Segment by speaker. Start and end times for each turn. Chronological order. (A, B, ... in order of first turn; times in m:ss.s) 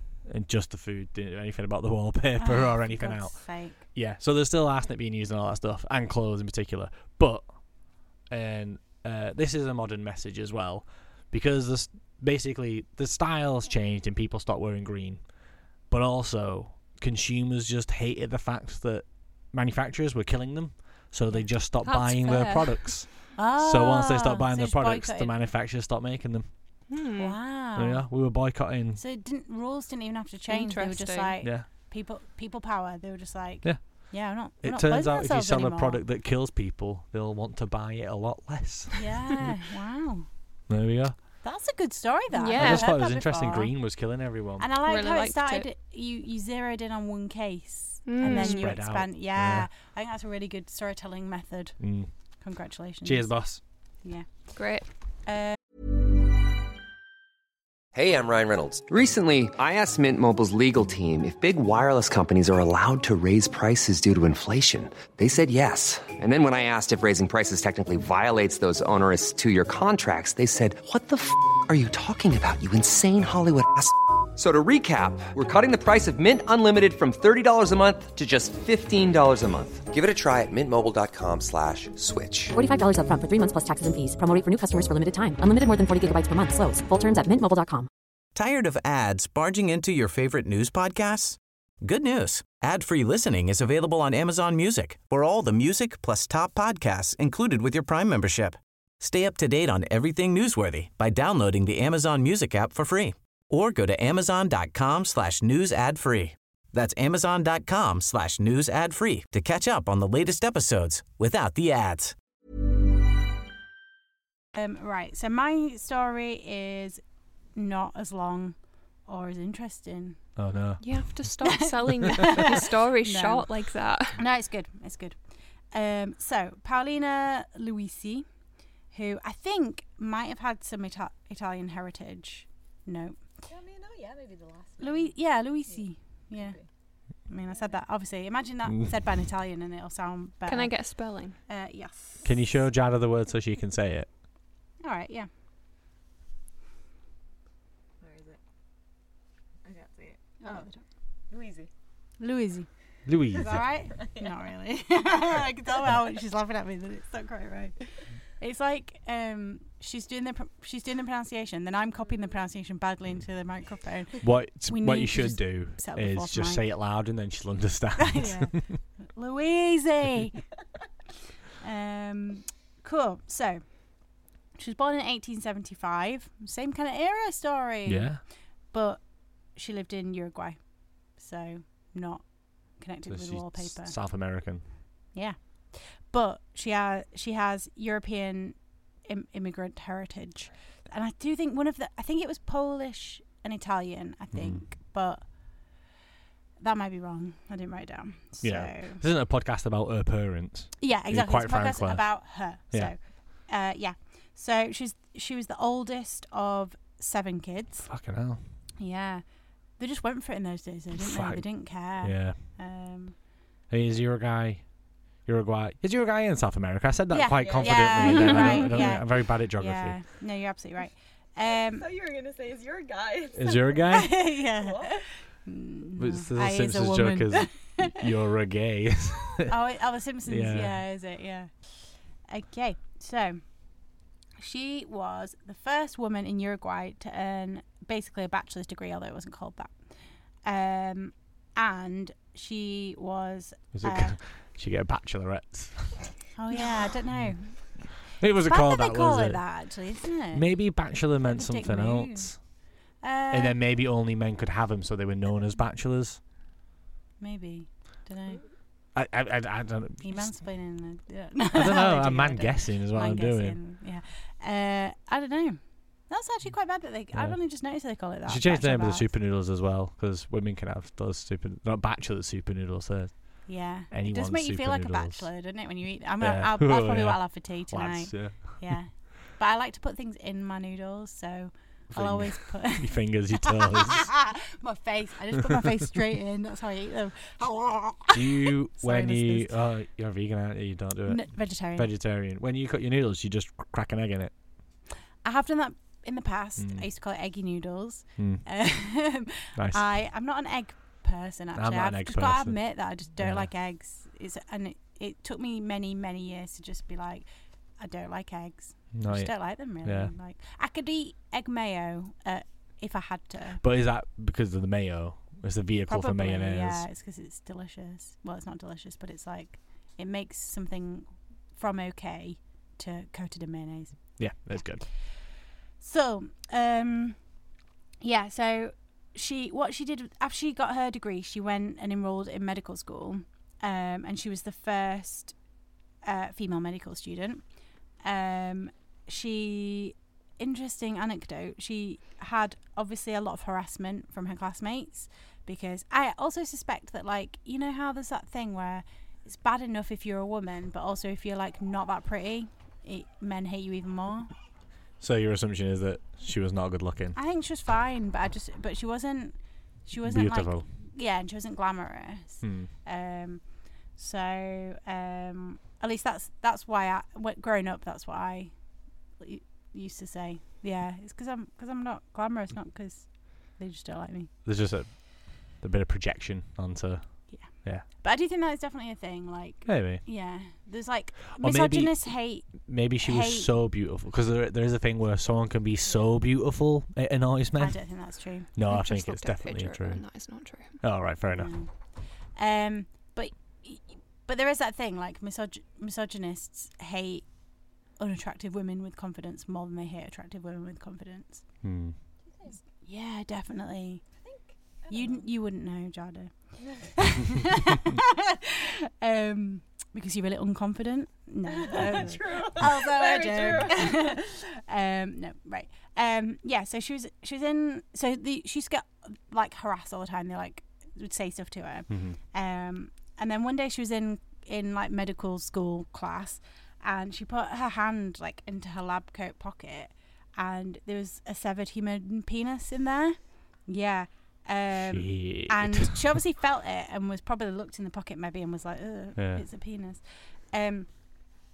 0:00.2-0:07.5 A
0:02.4-0:03.8 B
0:08.3-0:15.2 A
0:15.9-0:26.5 A
0:21.8-0:23.0 C
0:23.4-0:25.4 B
0:26.9-0:27.4 C
0:27.2-0:28.1 B
0:27.8-0:29.0 A
0:29.0-0:36.0 B
0:30.5-0:31.3 C
0:31.4-0:31.7 A
0:34.6-0:39.5 A
0:38.9-0:40.3 B
0:40.7-0:41.2 A
0:41.4-0:43.7 B
0:42.3-0:42.9 C
0:42.6-0:44.7 A
0:44.6-0:51.8 B
0:44.9-0:45.7 C
0:48.1-0:48.7 C
0:48.2-0:49.7 A
0:51.8-0:52.1 A
0:52.4-0:53.3 B
0:53.0-0:53.6 A
0:54.6-0:54.9 C
0:55.3-0:55.6 B
0:58.0-1:22.6 D
1:22.5-1:27.9 E
1:28.4-1:52.1 F
1:54.6-1:57.0 B
1:57.5-2:00.2 B
2:00.4-2:01.2 A
2:00.8-2:04.2 C
2:01.5-2:03.5 B
2:04.1-2:05.2 B
2:05.7-2:08.3 B
2:08.9-2:13.2 B
2:13.5-2:16.7 G
2:14.8-2:16.6 B
2:17.3-2:20.8 B
2:20.5-2:21.4 C
2:21.5-2:22.6 B
2:22.2-2:24.1 A
2:24.8-2:25.3 B
2:28.0-2:28.4 G
2:29.6-2:30.7 G
2:30.4-2:30.8 B
2:31.3-2:31.7 G
2:32.2-2:32.7 B
2:33.1-2:33.6 A
2:33.2-2:34.4 G
2:33.3-2:37.8 B
2:38.4-2:46.6 B
2:44.2-2:48.7 A
2:48.0-2:50.4 B
2:51.6-2:54.0 B
2:54.5-3:04.0 B
2:57.9-2:58.2 A
3:03.1-3:04.6 A
3:05.1-3:15.2 B
3:14.3-3:14.6 A
3:16.6-3:19.0 B
3:18.4-3:22.9 A
3:20.8-3:27.9 B
3:27.8-3:28.4 A
3:28.8-3:29.2 B
3:29.8-3:33.2 B
3:30.9-3:32.4 A
3:33.7-3:34.6 A
3:35.3-3:40.0 A
3:37.1-3:41.8 B
3:37.3-3:38.9 G
3:41.5-3:45.0 G
3:43.3-3:44.2 A
3:43.9-3:47.9 B
3:46.0-3:49.5 A
3:49.4-3:53.4 B
3:50.2-3:50.8 A
3:54.4-3:59.8 B
4:00.4-4:04.2 B
4:03.7-4:06.1 A
4:06.4-4:07.6 B
4:07.1-4:07.4 A
4:08.0-4:09.5 A
4:08.4-4:10.5 B
4:10.3-4:12.4 A
4:11.2-4:12.3 B
4:13.0-4:13.6 B
4:13.3-4:16.2 A
4:17.2-4:18.4 B
4:19.0-4:20.4 A
4:20.0-4:29.1 B
4:21.5-4:23.6 A
4:27.1-4:27.4 A
4:28.2-4:35.3 A
4:33.5-4:49.5 B
4:36.2-4:38.8 A
4:41.9-4:44.1 A
4:48.1-4:54.3 A
4:51.1-4:51.9 B
4:55.2-5:07.3 B
4:56.6-4:56.8 A
4:58.2-4:58.5 A
4:59.6-5:00.0 A
5:01.6-5:03.5 A
5:07.8-5:13.6 B
5:08.9-5:10.1 A
5:13.6-5:16.9 A
5:15.9-5:24.6 B
5:24.2-5:24.9 A
5:25.8-5:27.2 B
5:28.0-5:35.4 B
5:36.0-5:37.4 B
5:38.0-5:54.3 B
5:55.0-5:57.2 A
5:57.2-6:08.5 B
6:00.0-6:00.7 A
6:02.4-6:02.7 A
6:09.2-6:14.3 B
6:14.4-6:17.8 A
6:17.3-6:23.5 B
6:19.7-6:20.0 A
6:21.4-6:30.0 A
6:27.6-6:28.5 B
6:28.7-6:30.8 C
6:30.8-6:31.5 A
6:31.3-6:37.3 B
6:38.0-6:41.5 B
6:41.6-6:42.0 A
6:42.2-6:42.6 G
6:42.8-6:44.0 B
6:44.2-6:45.3 G
6:44.9-7:21.2 B
6:46.6-6:46.9 G
6:51.5-6:54.2 G
7:01.9-7:02.2 A
7:14.7-7:16.2 A
7:19.2-7:19.4 A